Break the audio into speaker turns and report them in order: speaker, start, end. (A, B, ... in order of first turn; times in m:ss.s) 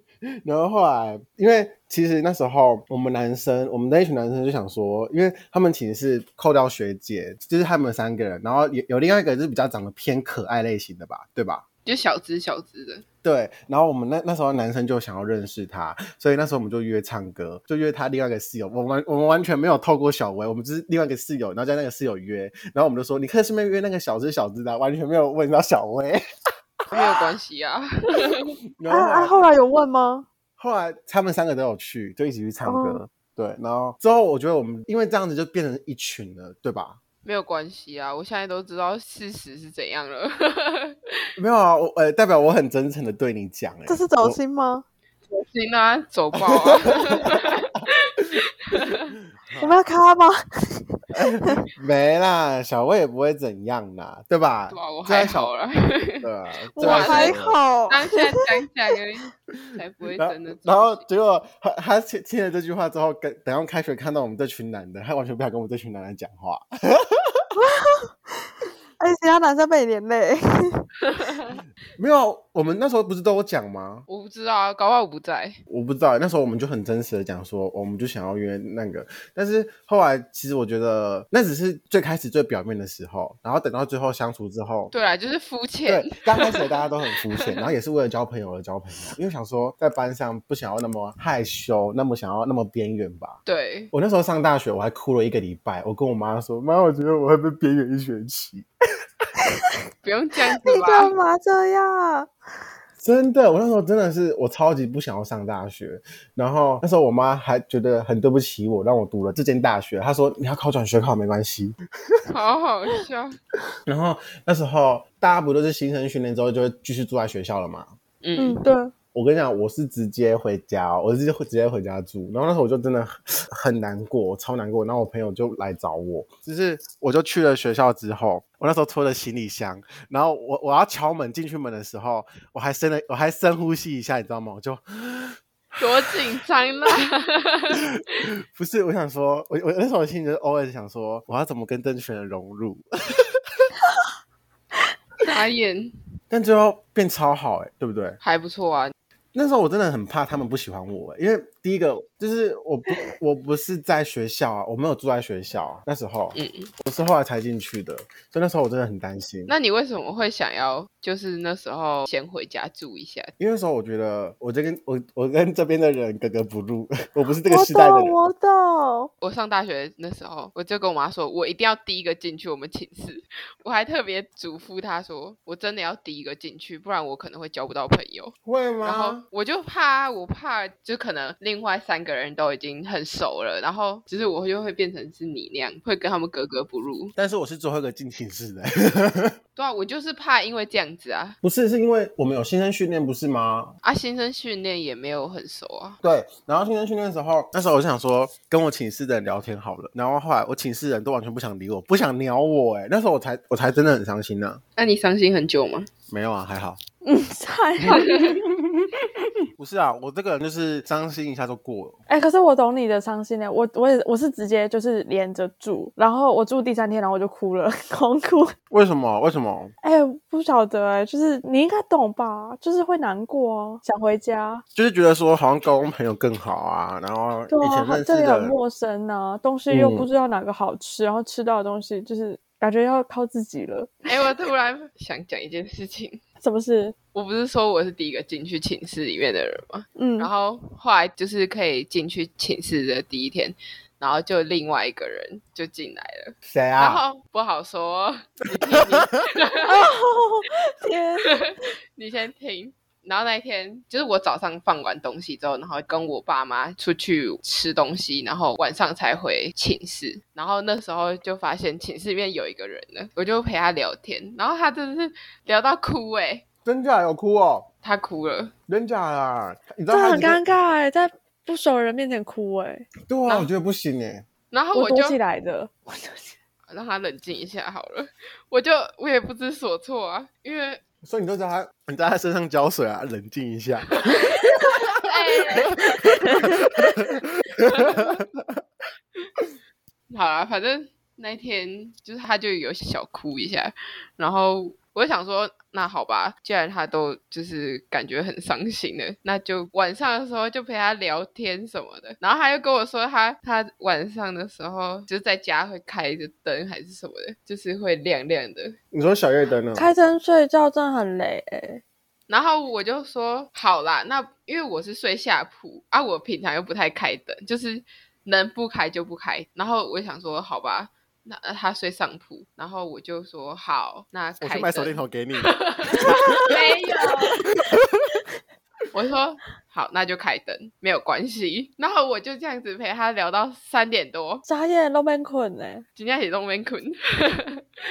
0:00.4-0:11.6 A
0:11.9-0:13.0 B
0:13.2-0:26.2 A
0:26.9-0:28.6 B
0:28.8-0:29.4 A
0:28.9-0:30.3 C
0:30.6-0:37.0 A
0:32.7-0:33.0 C
0:37.2-0:41.2 B
0:41.4-0:44.4 A
0:43.9-0:44.8 C
0:45.3-0:49.2 B
0:46.4-0:47.5 A
0:49.3-0:49.8 A
0:49.6-0:51.6 C
0:51.1-0:55.5 A
0:54.7-0:56.3 B
0:56.2-0:57.6 A
0:56.8-0:58.4 C
0:56.8-1:01.0 B
0:59.5-1:07.4 A
1:07.5-1:08.5 C
1:09.0-1:11.4 C
1:11.0-1:11.5 B
1:12.0-1:14.0 A
1:14.1-1:15.6 B
1:15.7-1:24.9 A
1:24.9-1:26.7 B
1:25.9-1:33.4 A
1:27.3-1:27.7 B
1:33.5-1:33.9 B
1:33.9-1:38.7 A
1:40.0-1:41.1 B
1:40.6-1:42.3 C
1:43.0-1:51.8 A
1:52.3-1:53.4 B
1:53.9-1:57.9 A
1:58.2-1:58.6 B
1:58.4-1:58.9 C
1:59.1-2:16.1 A
2:15.8-2:17.8 B
2:17.8-2:23.4 A
2:25.2-2:25.9 B
2:26.3-2:28.2 A
2:28.2-2:28.9 B
2:29.3-2:39.5 A
2:36.4-2:36.7 B
2:39.5-2:43.3 B
2:43.4-2:48.2 A
2:47.5-2:49.1 C
2:49.2-3:07.2 B
2:58.5-2:59.2 A
3:07.2-3:09.4 A
3:09.6-3:11.4 B
3:11.4-3:13.8 A
3:13.8-3:16.0 B
3:16.0-3:24.6 A
3:24.8-3:25.9 B
3:26.1-3:26.8 A
3:27.0-3:28.4 C
3:27.8-3:28.9 A
3:28.0-3:28.4 B
3:29.6-3:32.0 A
3:32.1-3:38.6 C
3:38.7-3:39.7 A
3:39.8-3:44.6 C
3:44.8-3:48.6 A
3:47.5-3:54.0 C
3:49.7-3:50.1 A
3:54.0-3:56.2 B
3:56.4-3:57.0 C
3:57.1-4:09.8 B
4:00.0-4:00.3 C
4:06.5-4:07.0 A
4:09.6-4:11.4 C
4:11.2-4:26.4 B
4:26.6-4:27.7 A
4:27.8-4:28.5 B
4:28.7-4:30.4 A
4:29.9-4:32.9 C
4:33.1-4:34.3 A
4:34.5-4:35.2 B
4:34.7-4:36.4 C
4:36.7-4:40.8 B
4:41.0-4:48.6 A
4:44.1-4:45.9 B
4:46.0-4:46.8 C
4:47.7-4:48.2 B
4:50.1-5:08.8 B
5:08.9-5:09.9 A
5:09.8-5:11.8 C
5:12.3-5:27.4 B
5:24.4-5:26.5 A
5:26.0-5:26.7 C
5:27.4-5:28.2 A
5:28.9-5:34.4 B
5:34.5-5:35.8 C
5:36.0-5:37.6 B